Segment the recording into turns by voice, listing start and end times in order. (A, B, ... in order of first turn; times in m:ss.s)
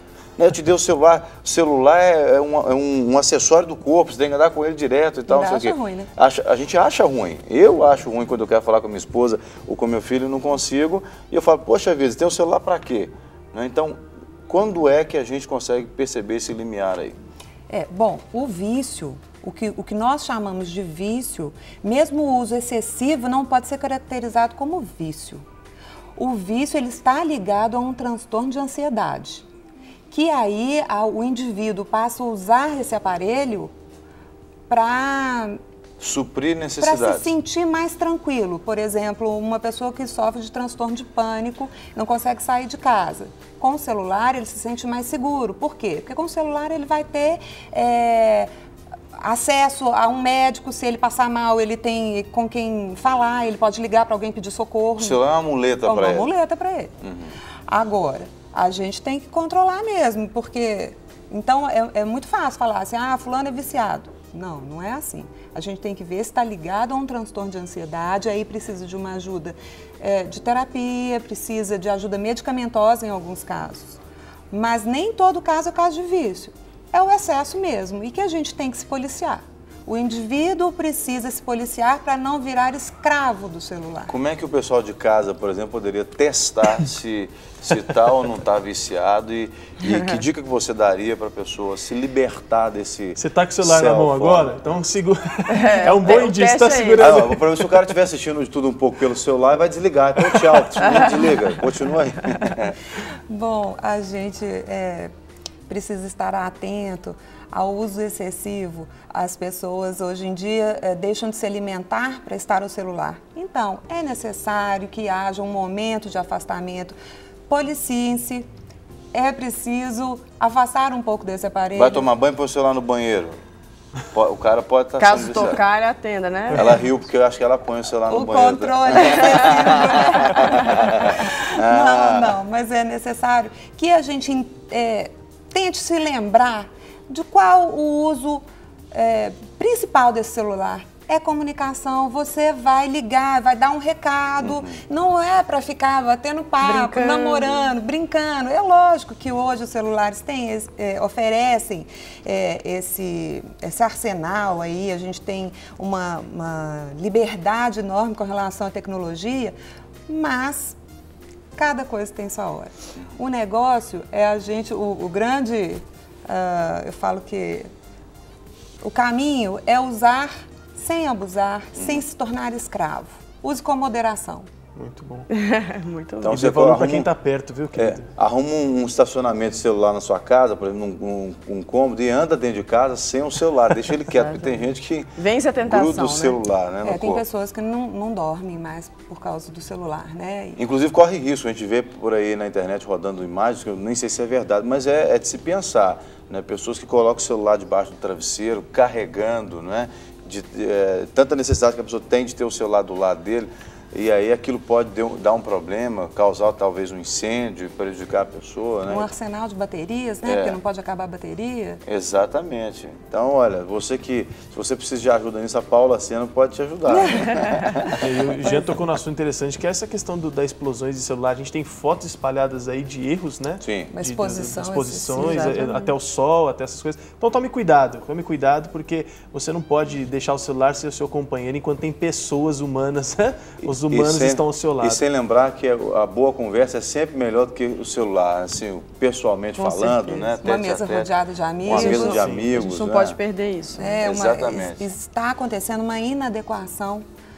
0:00.4-0:17.2 A
0:05.3-0:06.1 B
0:17.7-0:25.4 B
0:26.2-0:29.5 B
0:30.1-0:33.7 B
0:34.7-0:35.6 B
0:36.0-0:37.3 A
0:36.8-0:48.5 B
0:49.2-0:55.2 B
0:55.0-0:56.3 A
0:55.8-0:56.9 B
0:57.0-0:57.4 A
0:57.7-1:14.0 B
1:14.5-1:24.1 B
1:24.1-1:34.6 A
1:33.2-1:37.8 C
1:35.5-1:37.2 D
1:37.0-1:42.8 A
1:43.3-1:45.1 B
1:45.7-1:57.0 B
1:57.5-1:58.5 B
1:59.1-2:02.1 B
2:01.8-2:03.4 A
2:04.1-2:05.6 A
2:05.0-2:06.8 D
2:06.5-2:12.4 A
2:08.1-2:39.6 B
2:24.4-2:24.8 A
2:26.6-2:27.7 D
2:40.1-2:40.8 B
2:41.6-2:47.7 B
2:48.8-2:54.5 B
2:51.8-2:52.0 A
2:54.8-2:55.3 C
2:55.3-2:56.3 D
2:56.2-2:57.1 A
2:56.3-2:58.1 C
2:57.7-3:05.1 A
3:04.1-3:06.4 D
3:05.6-3:07.2 A
3:06.8-3:10.6 B
3:10.6-3:29.1 A
3:28.9-3:31.8 B
3:30.2-3:30.6 A
3:31.9-3:38.0 A
3:38.0-3:55.0 C
3:43.6-3:43.9 A
3:43.9-3:45.9 B
3:53.6-4:01.1 A
3:59.6-4:00.4 D
4:00.4-4:02.1 B
4:01.6-4:03.2 A
4:01.7-4:04.0 D
4:02.0-4:02.5 C
4:03.8-4:07.0 B
4:04.0-4:04.9 A